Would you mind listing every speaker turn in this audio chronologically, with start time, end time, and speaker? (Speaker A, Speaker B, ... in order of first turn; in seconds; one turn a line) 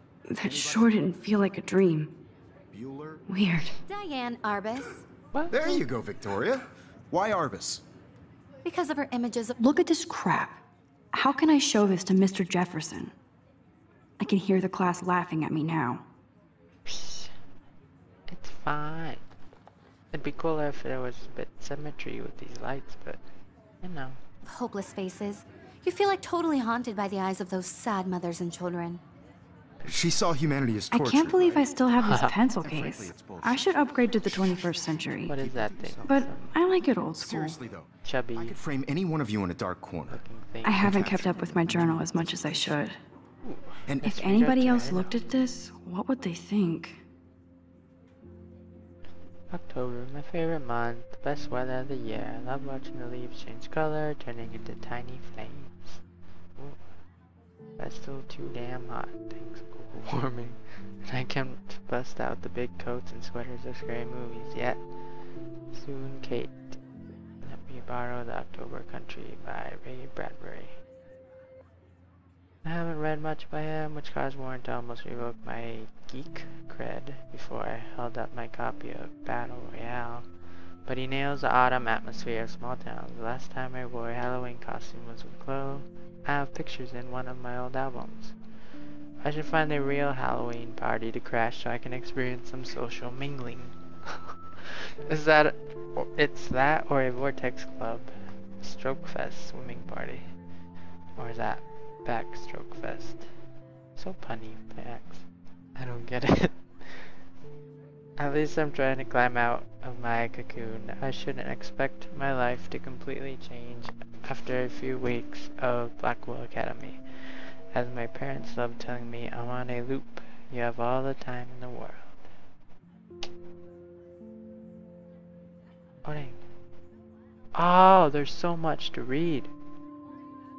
Speaker A: 0.3-2.1
Speaker B: 0.4-0.9
Speaker B: 2.7-3.2
Speaker A: 3.3-3.8
Speaker C: 3.9-5.0
Speaker D: 5.3-5.7
Speaker B: 5.5-7.8
Speaker C: 8.6-9.6
Speaker A: 9.6-10.6
Speaker A: 11.1-13.1
Speaker A: 14.2-16.0
Speaker D: 16.9-17.3
Speaker D: 18.3-19.2
Speaker D: 20.1-23.2
Speaker D: 23.8-24.2
Speaker C: 24.4-29.0
Speaker B: 29.8-31.7
Speaker A: 30.9-35.3
Speaker D: 32.0-32.3
Speaker B: 32.6-36.3
Speaker D: 35.3-36.5
Speaker A: 36.0-37.6
Speaker B: 37.2-40.2
Speaker D: 38.0-38.6
Speaker D: 40.1-41.0
Speaker A: 40.6-43.0
Speaker B: 40.8-42.5
Speaker D: 43.4-45.1
Speaker B: 43.9-44.2
Speaker A: 44.1-47.0
Speaker D: 49.5-56.0
Speaker D: 57.8-64.8
Speaker D: 65.7-66.8
Speaker D: 67.4-70.7
Speaker D: 72.6-80.2
Speaker D: 80.8-88.3
Speaker D: 89.2-100.2
Speaker D: 101.2-103.2
Speaker D: 104.0-105.2
Speaker D: 105.8-107.1
Speaker D: 108.2-117.0
Speaker D: 117.7-122.3
Speaker D: 126.0-126.4
Speaker D: 127.5-129.5